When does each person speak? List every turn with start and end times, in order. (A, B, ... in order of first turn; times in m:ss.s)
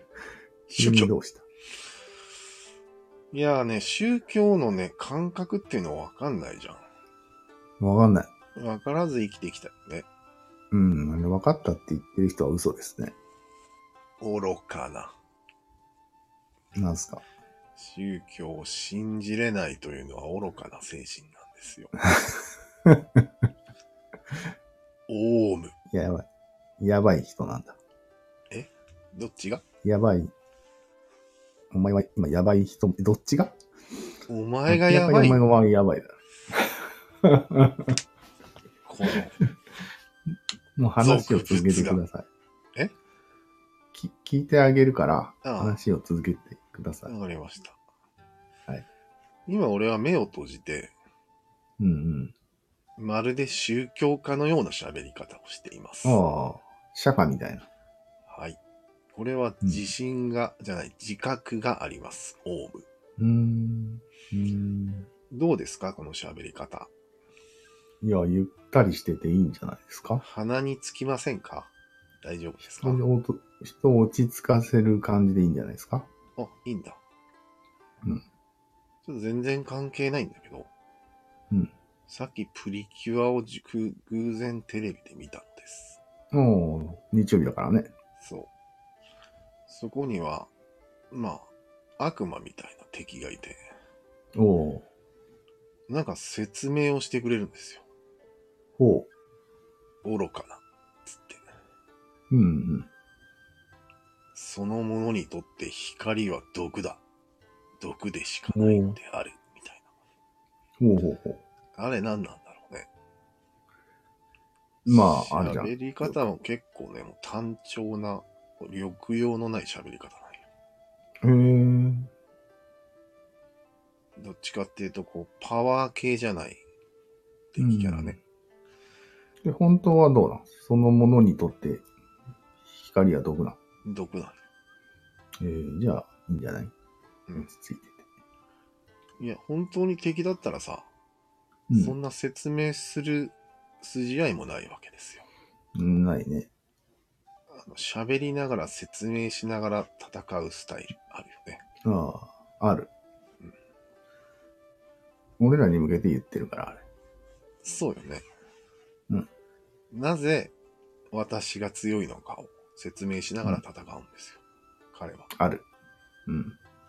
0:00.7-0:01.4 A
0:00.7-0:01.1 B
0:03.3-0:06.8 B
0:07.8-0:08.3 A
0:08.6-0:10.1 B
0:10.7-0:13.1 A
0:14.2-0:15.1 B
0:16.7-0:17.2 A
0:17.8-0:21.9 B
0:22.0-0:23.2 A
0:25.1-0:25.7 B
0:25.9-0:26.2 A
0:26.8-0:27.8 A
0:28.5-0:29.6 B
0:29.8-0:30.3 A
0:31.7-0:33.5 A
0:34.3-0:35.4 B
0:34.7-0:37.9 A
0:38.8-0:39.4 B
0:40.8-0:42.2 A
0:41.0-0:42.0 B
0:43.9-0:47.1 A
0:45.4-0:45.8 B
0:47.0-0:47.8 B
0:49.5-0:50.9 B
0:51.8-0:52.3 A
0:53.0-0:56.2 B
0:56.0-0:57.6 A
0:58.3-0:58.6 B
0:59.1-1:02.8 B
1:03.2-1:05.1 A
1:05.3-1:06.9 B
1:08.0-1:10.2 A
1:10.2-1:11.7 B
1:12.2-1:13.0 B
1:12.7-1:16.1 A
1:16.4-1:17.0 B
1:19.0-1:20.7 B
1:22.1-1:26.0 B
1:26.3-1:27.9 A
1:28.2-1:28.5 B
1:29.7-1:30.5 B
1:31.1-1:31.5 B
1:32.0-1:33.6 B
1:34.3-1:34.8 A
1:35.9-1:37.8 B
1:38.8-1:39.1 A
1:40.0-1:41.4 B
1:42.3-1:42.9 A
1:44.3-1:47.0 B
1:47.8-1:49.8 B
1:48.5-1:49.0 A
1:50.8-1:51.4 A
1:51.8-1:52.9 B
1:54.8-1:56.1 A
1:54.8-2:00.4 B
2:01.2-2:02.1 A
2:04.2-2:06.6 B
2:07.5-2:08.2 B
2:07.6-2:08.2 A
2:09.4-2:11.8 A
2:12.7-2:13.6 A
2:13.8-2:14.4 B
2:15.4-2:16.7 A
2:17.4-2:18.0 A
2:19.2-2:20.9 B
2:21.7-2:21.9 A
2:21.7-2:25.3 B
2:25.7-2:26.5 A
2:27.5-2:31.6 B
2:31.8-2:32.9 A
2:35.4-2:36.8 A
2:37.6-2:38.2 B
2:39.9-2:40.5 B
2:41.1-2:44.4 B
2:44.9-2:45.3 B
2:45.3-2:45.6 A
2:46.3-2:46.6 A